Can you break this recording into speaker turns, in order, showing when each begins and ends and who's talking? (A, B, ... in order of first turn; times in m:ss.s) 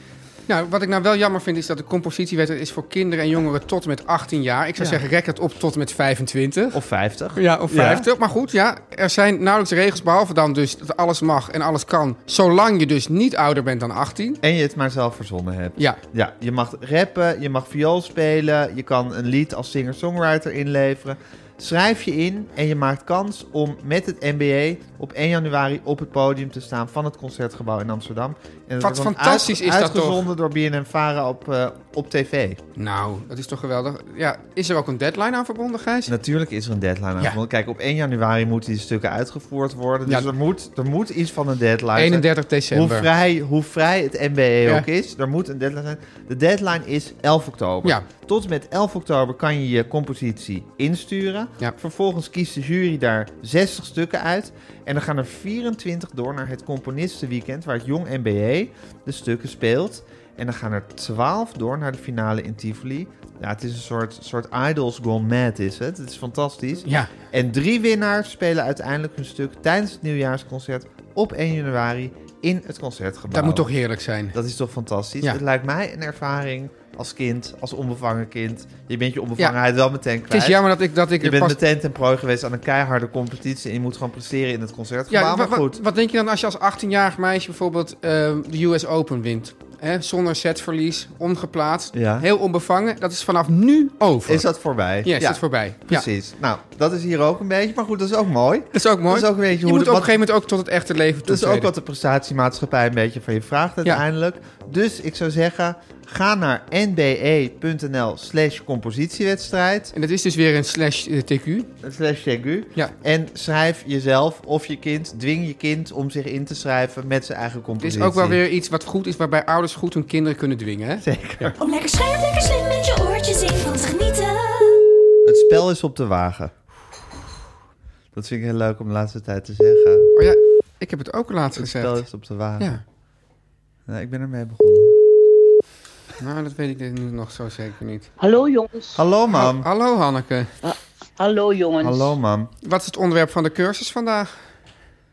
0:00.5-0:06.8 A
0:04.8-0:05.0 B
0:06.7-0:08.1 B
0:07.4-0:14.4 A
0:14.4-0:32.6 B
0:28.8-0:30.2 A
0:32.8-0:36.1 A
0:36.1-1:13.7 B
0:42.0-0:43.1 A
1:06.9-1:07.1 A
1:13.3-1:14.4 A
1:14.3-1:20.6 B
1:20.3-1:21.6 A
1:21.2-1:25.8 B
1:25.1-1:34.4 A
1:31.9-1:32.2 B
1:34.2-1:40.1 B
1:35.0-1:36.1 A
1:38.7-1:41.7 A
1:41.2-1:49.9 B
1:49.9-1:51.7 A
1:51.8-1:58.4 B
1:57.8-2:01.5 A
2:01.0-2:01.6 B
2:01.6-2:04.9 C
2:05.2-2:06.5 B
2:08.1-2:10.1 B
2:10.1-2:12.0 A
2:11.6-2:12.8 B
2:13.9-2:15.0 B
2:16.2-2:18.1 A
2:18.2-2:19.0 D
2:19.0-2:19.7 B
2:19.3-2:20.5 A
2:20.6-2:22.1 D
2:21.8-2:22.5 B
2:22.6-2:24.3 A